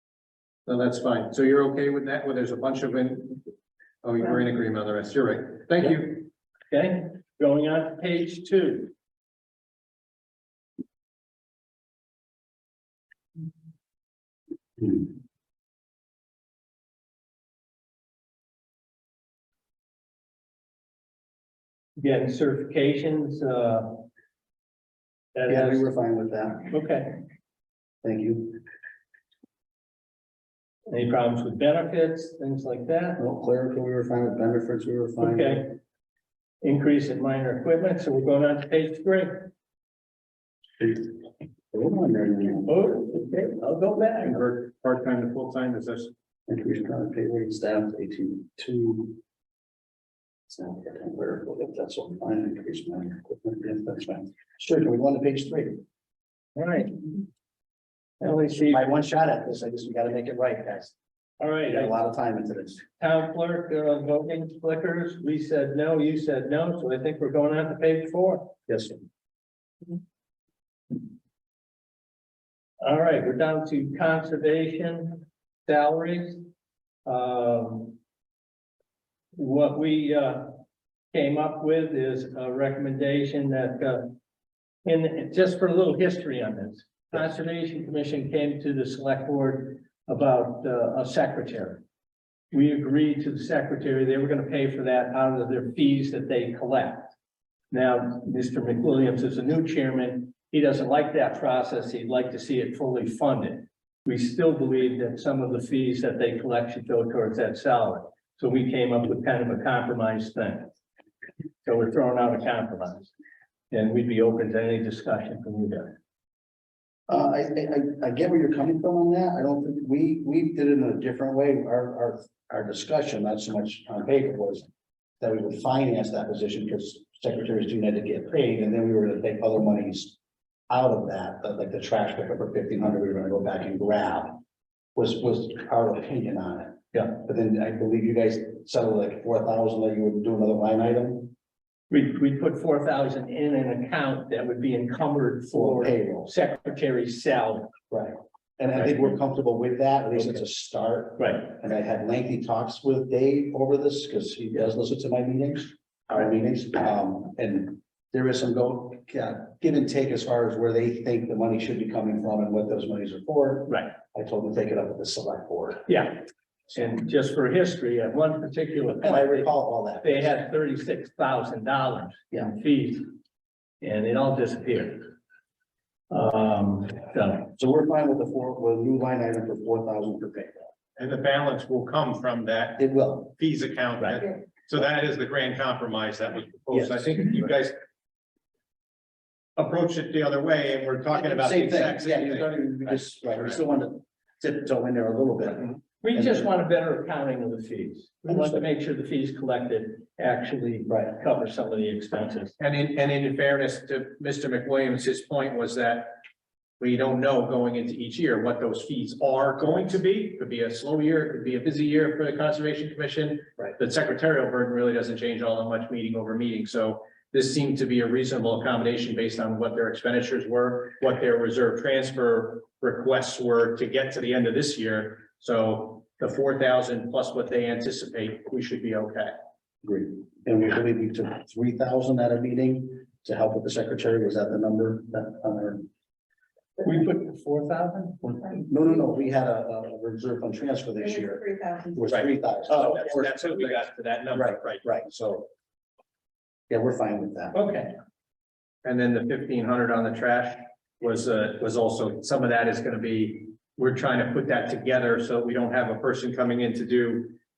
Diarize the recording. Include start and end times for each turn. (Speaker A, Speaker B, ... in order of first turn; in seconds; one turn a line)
Speaker A: 0.7-3.4
Speaker A: 4.0-6.3
Speaker B: 6.7-8.9
Speaker B: 22.0-24.1
Speaker B: 25.3-25.9
Speaker C: 25.5-26.7
Speaker B: 26.7-27.2
Speaker C: 28.0-28.6
Speaker B: 30.9-33.2
Speaker C: 33.2-35.8
Speaker B: 35.2-35.8
Speaker B: 36.6-39.5
Speaker C: 40.8-42.9
Speaker B: 42.7-44.3
Speaker A: 43.8-46.1
Speaker C: 46.5-49.2
Speaker C: 50.5-55.8
Speaker B: 56.5-57.1
Speaker B: 58.2-58.8
Speaker C: 58.6-60.9
Speaker B: 61.4-62.0
Speaker C: 61.7-62.8
Speaker B: 63.0-68.5
Speaker C: 68.7-69.0
Speaker B: 72.8-76.4
Speaker B: 77.0-78.0
Speaker B: 79.3-80.6
Speaker B: 81.1-84.2
Speaker B: 84.8-91.8
Speaker B: 92.5-97.1
Speaker B: 97.7-110.7
Speaker B: 111.6-113.1
Speaker B: 113.7-115.9
Speaker C: 117.1-124.7
Speaker C: 125.2-130.2
Speaker C: 130.7-134.4
Speaker C: 134.9-141.3
Speaker B: 141.9-147.7
Speaker C: 145.5-146.3
Speaker C: 147.9-165.9
Speaker B: 151.2-151.4
Speaker B: 165.9-169.5
Speaker C: 169.0-170.3
Speaker B: 170.0-173.1
Speaker B: 173.8-175.1
Speaker B: 176.1-177.5
Speaker C: 177.6-180.7
Speaker A: 181.0-187.7
Speaker C: 182.8-183.3
Speaker B: 186.7-187.0
Speaker A: 189.6-193.6
Speaker C: 191.1-196.5
Speaker B: 196.0-202.5
Speaker C: 198.3-198.6
Speaker A: 202.6-206.2
Speaker A: 206.8-229.3
Speaker C: 229.8-235.8
Speaker B: 236.8-238.2
Speaker C: 238.2-243.7
Speaker A: 242.2-245.4
Speaker C: 244.3-245.2
Speaker C: 246.7-247.6
Speaker B: 247.5-247.9
Speaker A: 248.8-257.3